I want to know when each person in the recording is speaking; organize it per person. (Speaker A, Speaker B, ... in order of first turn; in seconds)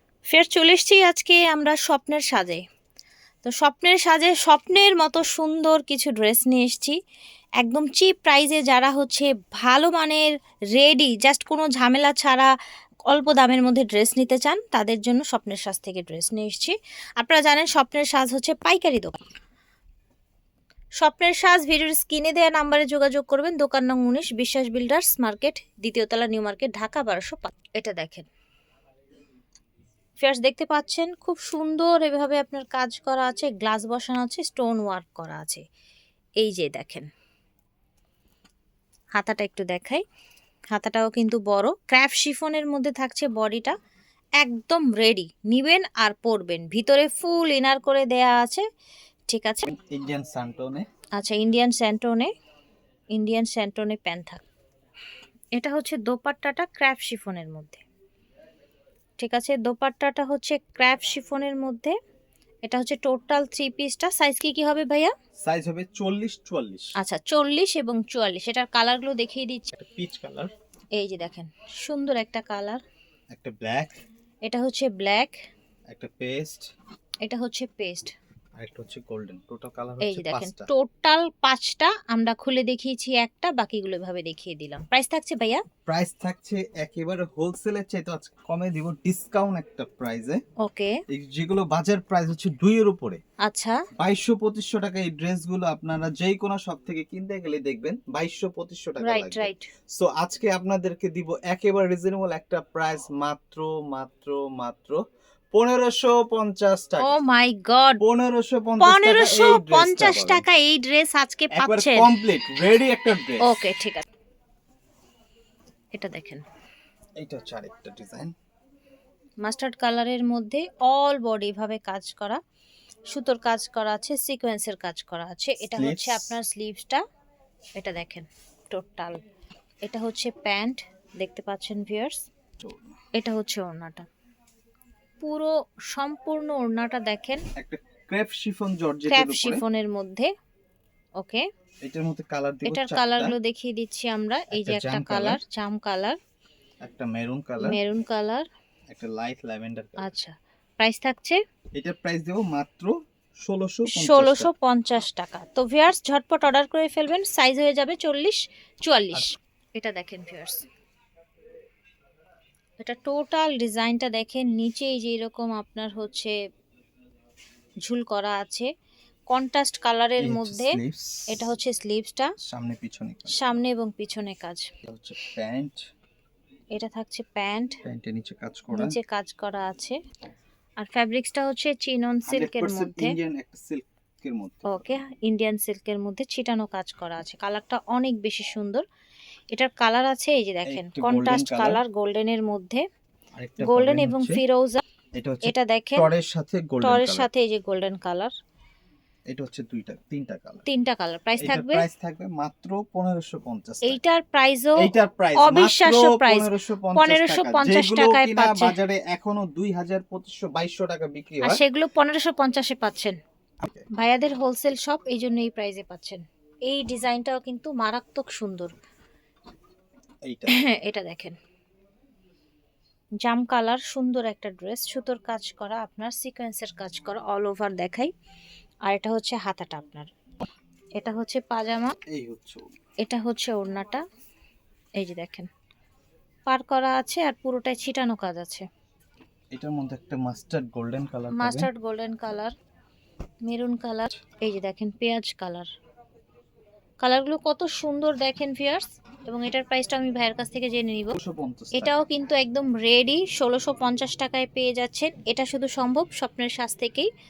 Speaker A: 0.3-2.6, 3.4-7.0, 7.6-12.5, 13.1-19.2, 21.0-28.3, 30.2-35.6, 36.4-37.1, 39.2-40.0, 40.7-43.8, 44.4-48.6, 49.3-49.7, 51.2-52.3, 53.1-54.4, 55.6-57.8, 59.2-62.0, 62.6-65.1, 67.0-69.7, 71.0-72.8, 74.5-75.4, 77.2-78.1, 80.0-85.6, 90.6-91.0, 93.4-93.8, 99.0-99.7, 107.0-108.0, 108.8-112.1, 113.4-114.1, 115.9-116.4, 119.4-122.4, 123.1-127.0, 127.8-129.2, 129.8-132.2, 133.2-134.1, 135.2-137.4, 139.1-140.3, 141.2-141.4, 142.7-146.2, 147.6-148.5, 150.0-151.4, 153.9-160.7, 162.8-166.4, 167.8-168.7, 169.3-172.3, 173.3-174.7, 176.7-177.8, 178.7-180.0, 180.8-183.2, 184.7-188.8, 189.5-192.8, 193.6-194.8, 195.5-196.1, 196.8-198.3, 200.7-201.8, 203.9-208.8, 211.4-213.2, 213.9-218.7, 220.5-221.4, 223.2-228.1, 228.9-230.1, 231.0-232.0, 233.0-234.0, 235.0-235.5, 236.5-238.6, 241.4-242.5, 243.5-245.7, 247.0-251.2, 251.8-257.1
Speaker B: 49.7-50.9, 65.4-66.9, 69.7-70.5, 73.3-74.0, 75.9-76.7, 78.6-80.7, 85.9-90.4, 91.1-93.2, 94.0-105.0, 105.5-107.2, 108.0-110.5, 111.5-113.6, 117.2-118.3, 125.6-126.4, 132.6-132.9, 137.6-139.6, 141.8-143.4, 144.5-145.4, 146.8-147.8, 148.9-150.1, 151.8-154.5, 170.2-171.5, 172.4-173.4, 174.8-175.8, 177.8-179.0, 182.3-184.9, 190.7-191.8, 193.4-194.4, 195.2-197.3, 199.3-200.6, 201.4-204.0, 204.8-211.6, 213.6-213.9, 220.2-220.6, 232.1-232.7, 239.5-241.7, 251.2-252.0